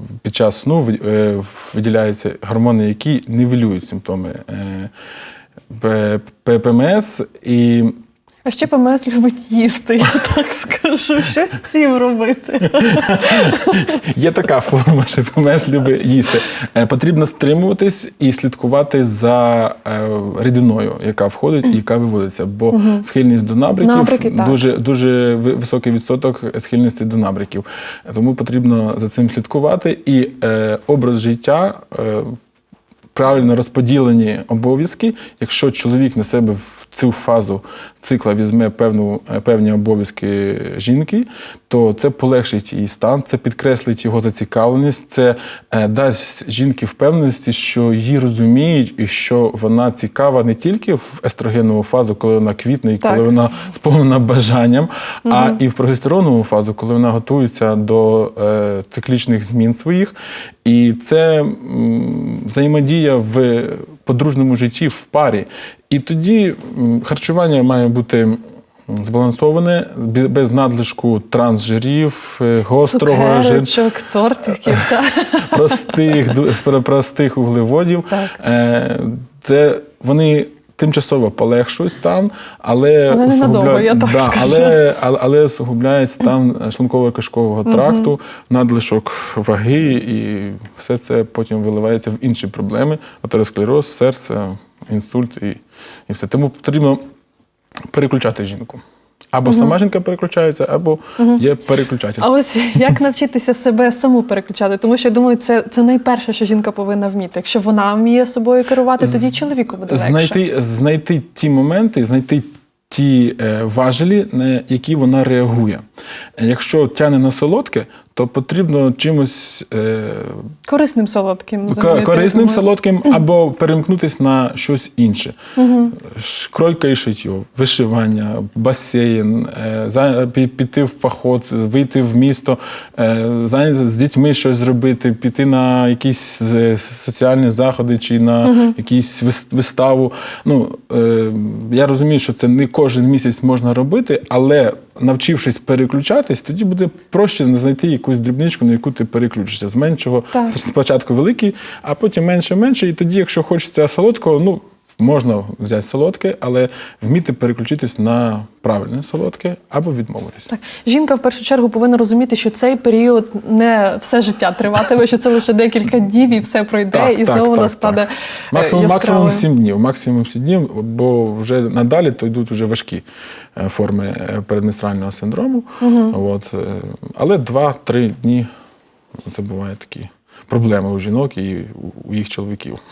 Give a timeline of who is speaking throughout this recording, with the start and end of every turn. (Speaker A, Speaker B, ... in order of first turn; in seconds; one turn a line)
Speaker A: 0.2-4.9
Speaker A: 5.7-7.9
Speaker B: 8.5-13.9
Speaker A: 12.8-32.3
Speaker B: 22.7-23.0
Speaker B: 23.8-24.6
Speaker A: 33.1-60.1
Speaker B: 53.0-53.3
Speaker B: 55.3-55.6
Speaker A: 60.6-73.7
Speaker B: 72.8-76.1
Speaker A: 75.5-97.0
Speaker B: 78.1-78.4
Speaker B: 83.1-84.8
Speaker B: 87.7-88.1
Speaker A: 97.9-98.8
Speaker A: 99.3-102.3
Speaker B: 99.5-99.8
Speaker B: 102.2-110.4
Speaker A: 109.0-109.3
Speaker A: 109.9-115.8
Speaker A: 116.4-120.5
Speaker B: 120.7-123.1
Speaker A: 121.7-125.4
Speaker B: 125.6-125.9
Speaker A: 125.9-160.5
Speaker B: 138.4-138.8
Speaker B: 160.5-169.5
Speaker A: 166.9-173.0
Speaker A: 173.6-178.5
Speaker B: 175.8-176.2
Speaker A: 179.3-182.8